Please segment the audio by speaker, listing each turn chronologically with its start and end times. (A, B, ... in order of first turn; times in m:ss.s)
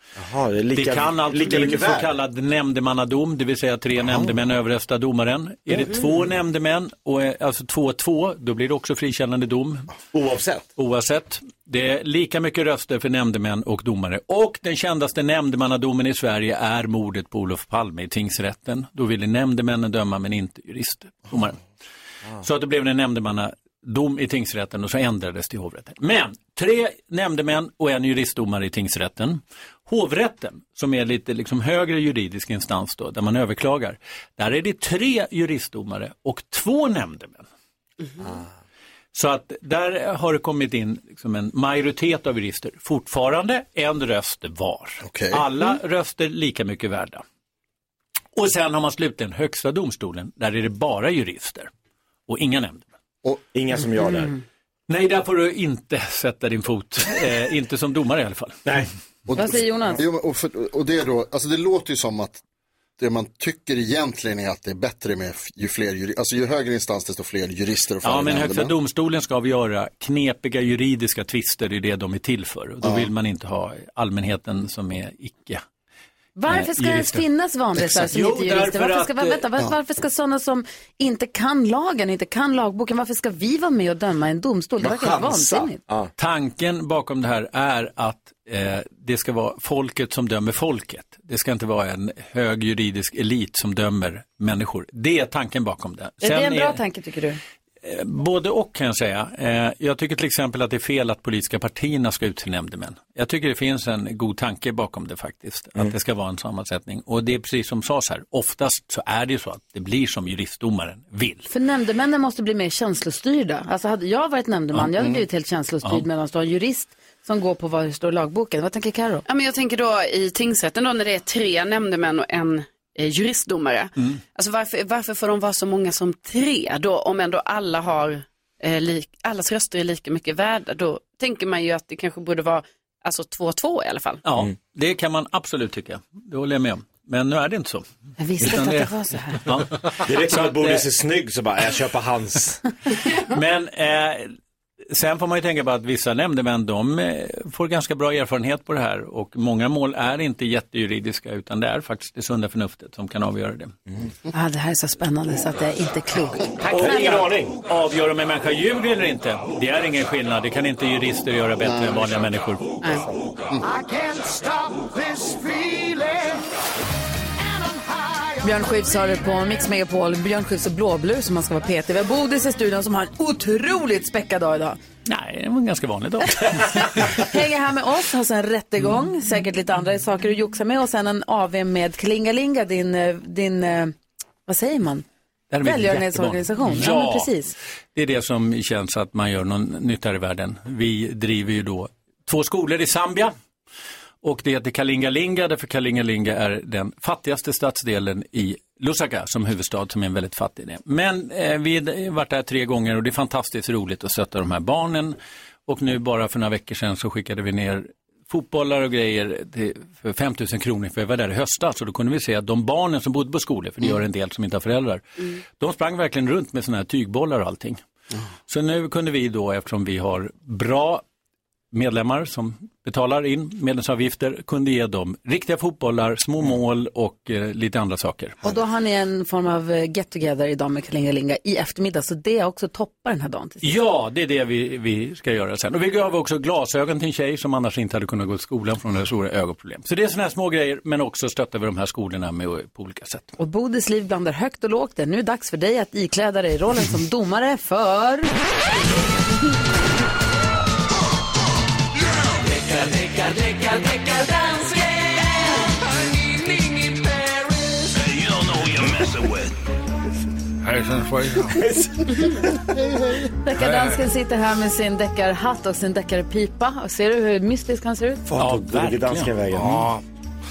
0:00.2-0:02.1 A
0:00.7-0:09.9 B
0:10.1-0:10.7 A
0:10.8-0:21.6 B
0:22.4-0:37.4 B
0:39.1-0:47.2 B
0:45.0-0:45.4 C
0:48.3-0:51.7 B
0:52.3-0:52.9 B
0:53.4-0:54.3 A
0:54.9-0:58.6 B
0:58.6-0:58.9 A
0:59.3-1:02.4 C
0:59.4-1:00.0 D
1:03.0-1:08.7 C
1:08.0-1:15.6 B
1:12.8-1:13.1 C
1:16.4-1:25.8 D
1:16.5-1:19.5 B
1:24.8-1:26.1 A
1:26.2-1:36.8 B
1:36.2-1:37.4 D
1:37.8-1:51.5 B
1:51.5-1:59.2 D
1:59.2-2:14.2 E
2:14.2-2:17.8 B
2:18.2-2:19.4 D
2:18.4-2:20.8 B
2:20.0-2:22.6 A
2:23.2-2:24.3 B
2:24.9-2:33.7 B
2:34.3-2:36.4 D
2:36.6-2:42.7 B
2:36.7-2:37.6 A
2:41.6-2:42.1 C
2:43.7-2:46.4 F
2:48.4-2:54.8 D
2:55.0-2:57.2 B
2:57.2-3:03.9 D
3:04.5-3:05.0 D
3:05.5-3:07.3 B
3:05.6-3:07.5 D
3:07.9-3:13.3 B
3:14.2-3:25.2 B
3:25.7-3:37.8 B
3:38.5-3:41.0 B
3:41.7-3:48.4 B
3:48.4-3:53.8 D
3:53.6-4:03.3 B
4:03.4-4:08.3 D
4:13.5-4:13.8 F
4:15.5-4:18.2 F
4:20.6-4:21.6 G
4:21.5-4:22.6 A
4:23.4-4:28.2 D
4:23.6-4:24.0 G
4:28.3-4:29.9 A
4:28.4-4:29.3 B
4:29.5-4:30.0 G